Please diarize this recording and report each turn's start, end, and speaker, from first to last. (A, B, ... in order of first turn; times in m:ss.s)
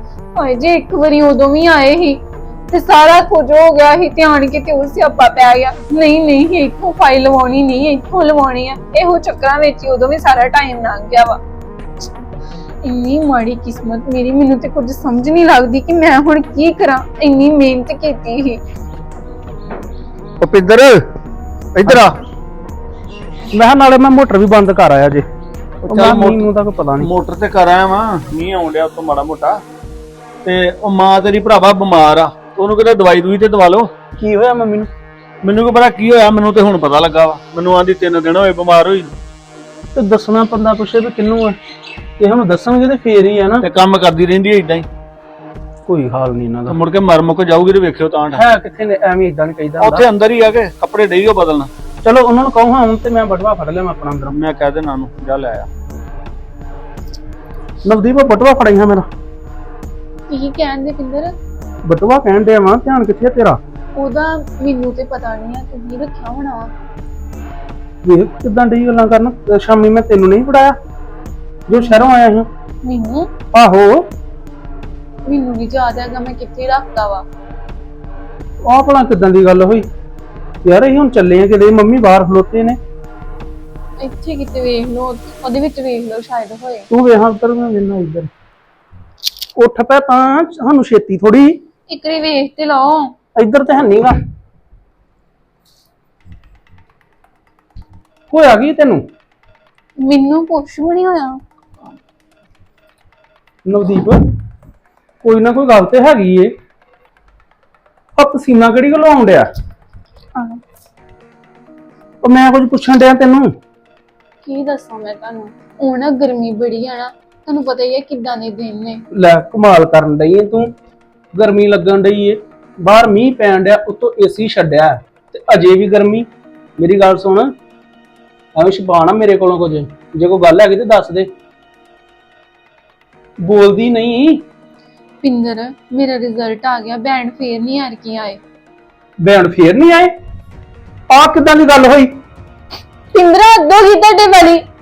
0:00.4-0:11.4 A
0:12.8-0:18.6 A
0:20.4-0:21.0 B
0:21.8-0:22.1 B
0:23.5-0:25.3 C
0:25.9-0:27.1 C
0:25.9-0:26.5 B
0:27.0-0:29.6 B
0:30.4-0:33.9 B
0:34.2-0:34.9 C
0:35.4-0:39.1 B
0:40.0-0:41.6 C
0:42.2-0:43.6 C
0:43.6-0:44.9 B
0:45.9-0:46.8 C
0:46.7-0:48.4 B
0:48.3-0:50.1 C
0:49.8-0:51.7 B
0:52.0-0:54.4 C
0:54.3-0:55.7 B
0:57.8-0:59.1 C
1:00.3-1:01.4 A
1:01.8-1:03.6 C
1:04.0-1:06.7 A
1:08.0-1:10.8 C
1:11.7-1:12.5 C
1:12.8-1:13.3 A
1:13.5-1:14.1 C
1:15.3-1:17.2 A
1:18.6-1:19.9 C
1:20.6-1:22.8 C
1:24.0-1:26.9 A
1:26.9-1:28.3 C
1:29.6-1:31.6 C
1:31.9-1:33.2 A
1:33.4-1:34.2 C
1:38.3-1:39.0 C
1:40.0-1:41.4 A
1:43.7-1:44.2 C
1:45.2-1:46.5 C
1:48.2-1:49.5 C
1:50.4-1:50.6 A
1:52.2-1:53.5 C
1:54.4-1:59.0 A
1:59.1-2:00.7 C
2:01.3-2:06.3 C
2:06.8-2:07.5 C
2:08.6-2:11.3 C
2:13.4-2:14.4 C
2:15.2-2:18.4 A
2:19.2-2:20.1 C
2:21.1-2:22.1 C
2:23.1-2:24.6 A